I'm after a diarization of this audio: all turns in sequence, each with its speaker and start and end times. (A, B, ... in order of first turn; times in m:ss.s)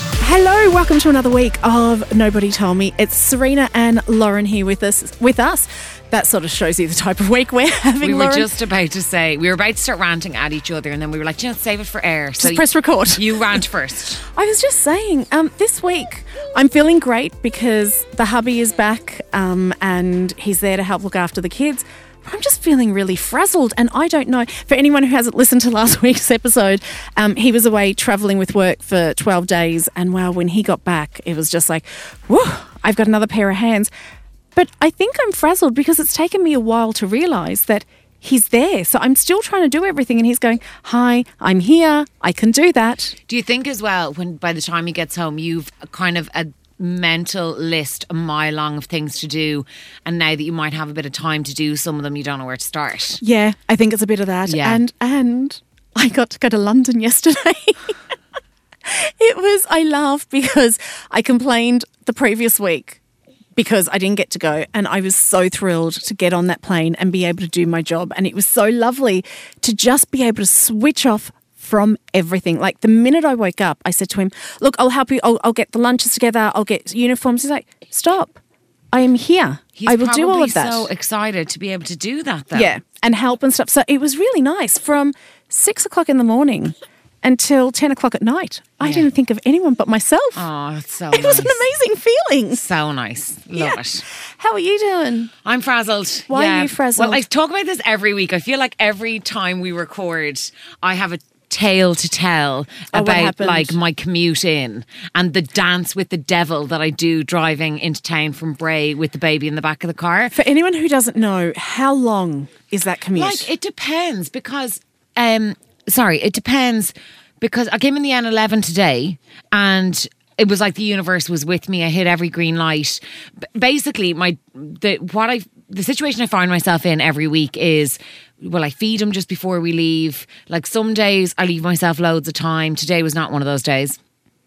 0:00.2-0:08.5 A
0:08.0-0:14.2 B
0:12.4-0:13.6 A
0:14.3-0:33.9 A
0:34.5-0:43.1 A
0:43.3-0:53.2 B
0:53.2-0:58.0 A
0:54.4-0:54.8 B
0:58.8-1:03.0 A
1:03.5-1:18.4 A
1:18.9-1:20.9 A
1:19.8-1:22.7 B
1:22.5-1:30.4 A
1:28.8-1:29.1 B
1:30.3-1:31.6 B
1:31.1-1:32.7 A
1:32.5-1:34.0 B
1:33.6-1:35.3 A
1:35.4-1:50.3 B
1:36.3-1:37.2 A
1:42.9-1:43.8 A
1:50.3-1:53.5 A
1:53.1-2:14.0 B